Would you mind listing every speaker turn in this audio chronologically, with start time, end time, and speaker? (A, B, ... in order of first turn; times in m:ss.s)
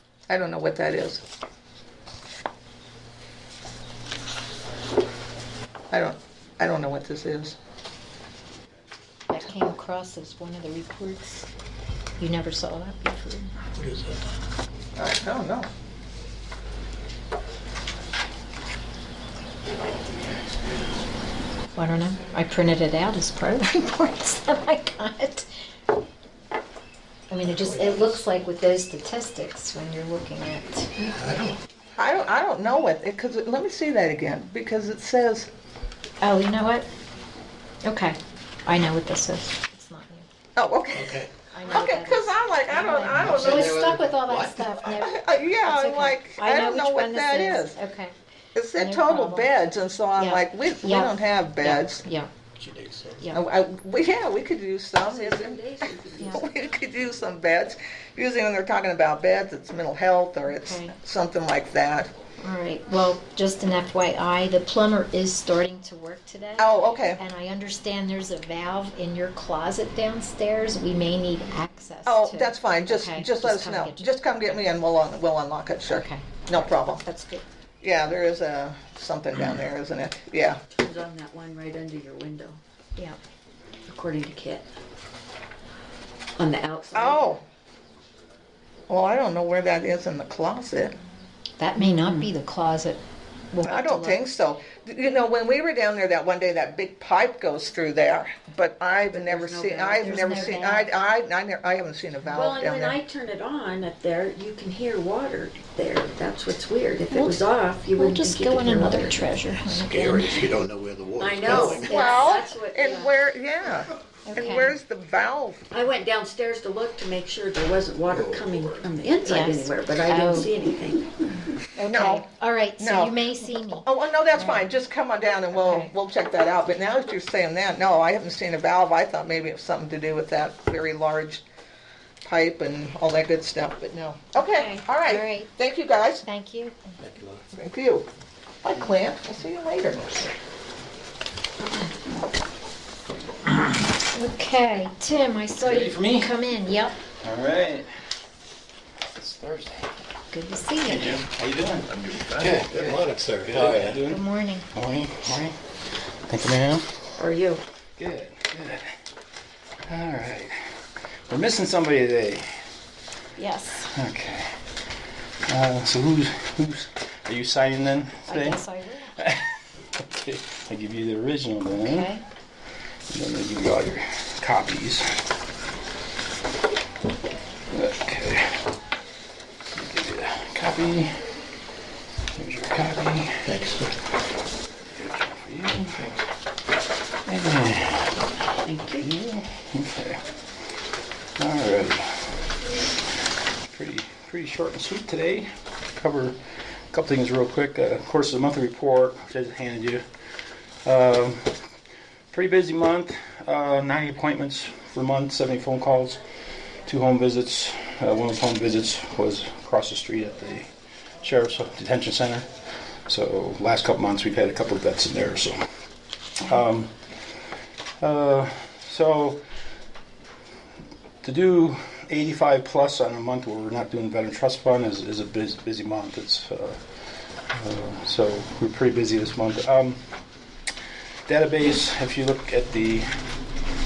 0:00.3-0:01.2 A
0:05.9-0:07.6 A
0:09.3-0:11.5 B
0:12.2-0:13.5 B
0:13.8-0:14.1 C
0:15.0-0:15.7 A
0:21.8-0:25.5 B
0:27.3-0:30.9 B
0:27.5-0:28.2 C
0:31.0-0:31.6 C
0:32.0-0:35.5 A
0:36.2-0:36.9 B
0:37.8-0:40.3 B
0:40.6-0:43.9 A
0:40.9-0:41.3 C
0:41.5-0:48.1 B
0:43.1-0:44.8 C
0:44.9-0:47.8 A
0:48.6-0:52.0 A
0:48.8-0:49.5 B
0:50.2-0:52.3 B
0:52.6-0:53.2 C
0:53.3-1:02.1 A
0:55.0-0:56.5 D
1:00.5-1:00.9 B
1:02.4-1:14.6 B
1:06.6-1:07.2 A
1:12.1-1:17.0 A
1:15.9-1:17.4 B
1:17.8-1:20.6 A
1:20.7-1:22.6 D
1:23.9-1:24.7 D
1:26.4-1:27.4 D
1:26.9-1:27.4 A
1:28.9-1:31.0 A
1:31.6-1:34.2 B
1:31.8-1:32.3 D
1:33.6-1:43.0 A
1:39.1-1:40.5 D
1:40.0-1:40.9 B
1:42.3-1:49.2 D
1:47.1-1:47.4 B
1:48.0-1:50.5 B
1:49.7-1:52.0 C
1:51.2-1:53.2 D
1:51.5-1:55.7 A
1:51.5-1:52.3 B
1:54.3-1:54.8 B
1:55.7-2:01.1 D
1:58.1-1:58.8 C
1:59.2-2:00.5 B
2:01.8-2:04.7 B
2:01.8-2:02.2 A
2:02.8-2:11.4 A
2:05.5-2:05.9 B
2:12.2-2:16.2 A
2:14.4-2:15.5 B
2:16.2-2:16.8 B
2:17.0-2:17.4 C
2:17.5-2:18.1 A
2:18.6-2:20.3 A
2:24.1-2:27.0 B
2:25.6-2:26.3 E
2:27.2-2:27.9 E
2:29.2-2:29.9 E
2:30.3-2:31.2 B
2:30.8-2:37.1 E
2:32.4-2:34.0 C
2:34.1-2:34.7 B
2:37.2-2:37.6 D
2:38.0-2:38.9 E
2:39.9-2:40.8 E
2:41.3-2:42.6 E
2:43.4-2:43.9 B
2:43.8-2:44.7 E
2:45.5-2:52.2 E
2:48.3-2:49.2 B
2:51.8-2:52.2 B
2:53.1-2:55.1 E
2:57.7-2:58.7 E
2:59.7-3:01.2 E
3:02.4-3:03.5 E
3:03.4-3:03.9 C
3:04.9-3:06.1 E
3:07.3-3:08.3 E
3:08.6-3:09.1 D
3:08.9-3:10.2 E
3:11.4-3:12.4 E
3:13.7-3:16.4 E
3:16.9-3:20.0 E
3:20.8-3:21.6 E
3:22.3-3:26.2 E
3:26.8-3:30.7 E
3:31.2-3:32.5 E
3:33.1-3:35.6 E
3:36.4-3:37.0 E
3:38.0-3:39.4 E
3:41.2-3:46.8 E
3:47.4-3:50.0 E
3:51.3-3:53.1 E